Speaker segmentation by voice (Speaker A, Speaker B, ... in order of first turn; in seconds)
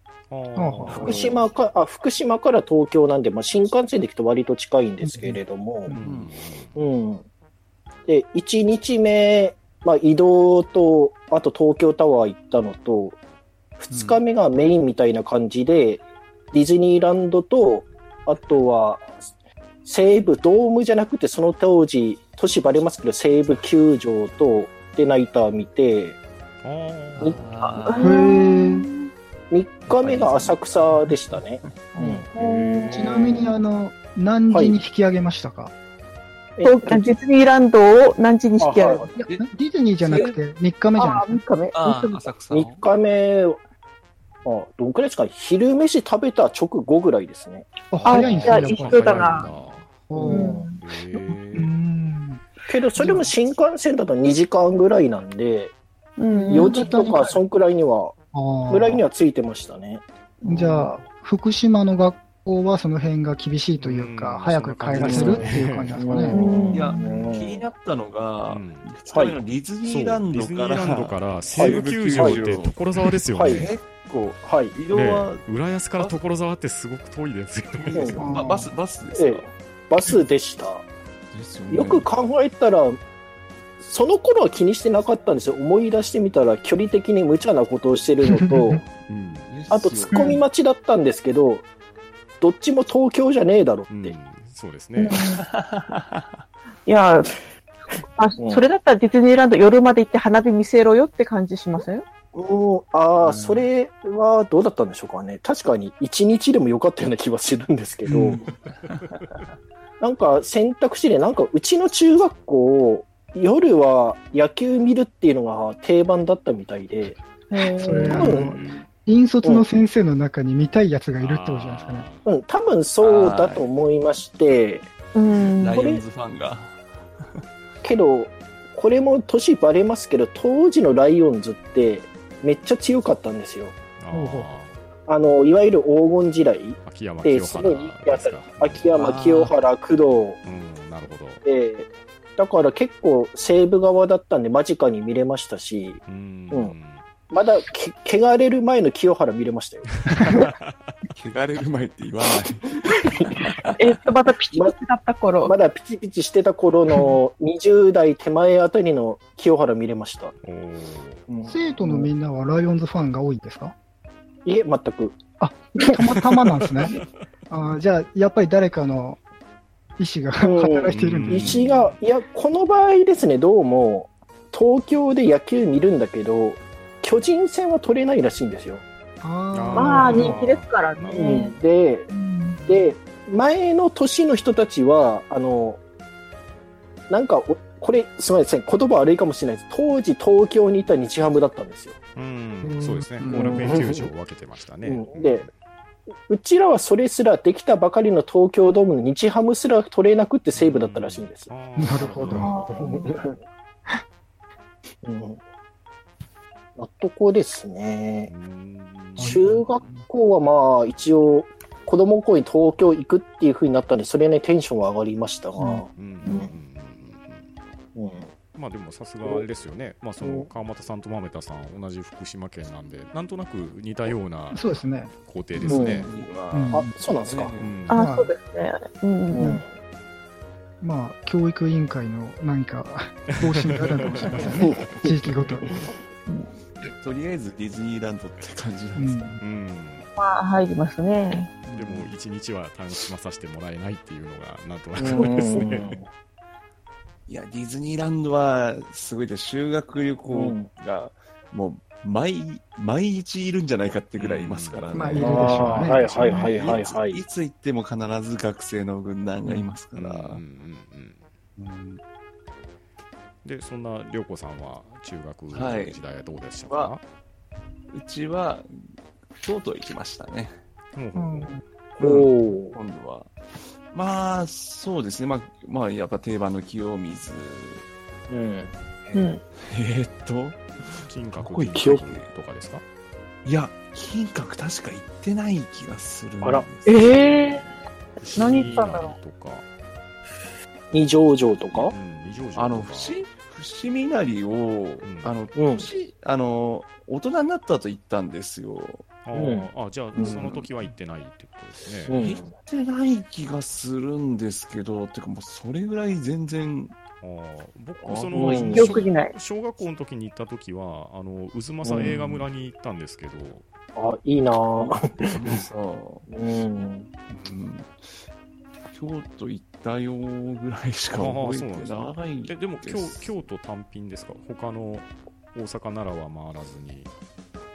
Speaker A: 0.3-1.4, 5.9-6.8, 26.6-27.4, 32.4-33.5, 48.1-50.0, 50.8-51.7, 63.8-66.3, 68.5-68.9, 69.8-73.7, 74.9-78.3, 89.1-89.5, 93.9-95.2, 118.2-118.7, 121.2-122.3, 134.0-134.8, 136.8-138.9, 140.4-141.4, 146.1-147.0, 150.1-150.9, 160.4-161.2, 170.9-172.0, 179.5-181.4, 192.2-195.5, 200.6-202.8, 208.3-209.4, 215.9-217.5, 218.6-226.1, 227.6-228.1, 233.7-235.7, 239.4-240.1, 241.7-246.0, 254.2-256.9, 259.9-261.2, 263.4-267.0, 270.9-271.6, 280.9-282.8, 288.2-289.6, 291.7-293.2, 295.0-295.3, 299.2-302.1, 307.2-313.6, 321.1-327.1
Speaker B: 0.6-1.3, 5.0-5.9, 28.0-28.9, 32.9-35.7, 39.2-41.4, 47.9-49.5, 50.1-50.6, 51.5-52.4, 53.0-53.3, 56.3-57.4, 58.3-59.0, 60.5-66.4, 78.2-78.7, 88.4-88.8, 108.1-108.4, 117.8-122.1, 134.1-134.5, 161.4-163.7, 165.4-167.0, 167.5-169.2, 170.0-171.6, 179.2-180.4, 192.6-193.8, 201.8-202.6, 209.2-209.7, 224.5-225.1, 226.5-226.9, 227.9-228.3, 229.4-229.6, 230.8-235.7, 239.0-239.4, 241.7-242.1, 254.9-256.1, 261.6-262.0, 271.2-271.6
Speaker C: 0.8-5.9, 6.8-7.2, 8.1-13.2, 13.8-19.2, 19.9-26.2, 29.5-32.3, 34.5-34.8, 36.6-37.1, 38.6-39.1, 42.5-43.6, 44.5-47.9, 50.2-50.7, 52.7-55.8, 56.5-58.2, 58.7-60.0, 65.0-67.7, 69.1-69.4, 71.6-72.4, 73.4-73.7, 74.4-74.8, 77.9-78.2, 79.1-80.8, 81.7-83.0, 83.8-88.8, 89.7-91.7, 92.4-94.2, 98.4-98.6, 102.3-108.4, 110.0-117.2, 117.9-118.8, 122.2-124.9, 125.7-126.0, 127.8-133.7, 135.1-140.4, 141.4-146.8, 147.3-150.0, 155.4-160.3, 161.3-162.1, 164.4-165.2, 170.4-178.8, 181.1-182.1, 182.7-185.8, 187.1-192.0, 193.3-194.1, 194.8-195.5, 196.3-201.5, 202.8-203.4, 205.0-205.4, 206.8-208.3, 209.2-216.5, 217.9-218.3, 225.7-226.2, 226.7-227.5, 229.3-229.7, 234.6-235.1, 245.0-246.1, 250.3-250.7, 255.2-257.2, 272.0-272.8, 278.3-279.4, 281.8-282.0, 286.4-286.7, 290.9-291.9, 295.6-295.9, 299.3-300.6, 302.1-302.5, 308.3-309.0, 311.8-312.3, 314.0-315.6, 316.3-317.1
Speaker D: 5.9-6.4, 13.9-14.2, 27.2-28.1, 29.9-30.7, 41.7-42.9, 66.7-75.4, 77.7-79.5, 81.3-82.1, 89.5-90.4, 95.3-96.4, 123.0-123.7, 125.3-127.4, 138.9-139.6, 151.2-154.0, 193.2-193.5, 225.7-227.9, 237.0-239.4, 247.3-260.4, 265.5-266.0, 266.7-266.9, 267.9-268.7, 269.4-270.6, 272.0-273.3, 273.9-277.9, 279.6-282.3, 283.4-287.7, 292.6-299.1, 300.2-300.6, 302.1-307.0, 308.0-309.1, 312.0-312.4, 315.3-316.3, 317.4-318.2, 318.9-323.4
Speaker E: 27.6-29.1, 31.9-33.5, 36.6-39.2, 41.0-42.3, 48.0-49.5, 50.2-50.8, 56.2-57.4, 60.4-60.9, 66.3-67.4, 90.1-90.4, 95.0-95.4, 96.8-102.0, 117.5-118.4, 125.2-125.8, 153.8-155.6, 179.7-181.6, 182.1-182.7, 202.3-203.2, 215.6-216.4, 227.9-229.5, 240.2-241.6, 279.1-279.4, 286.9-287.8, 288.3-289.1, 308.7-309.3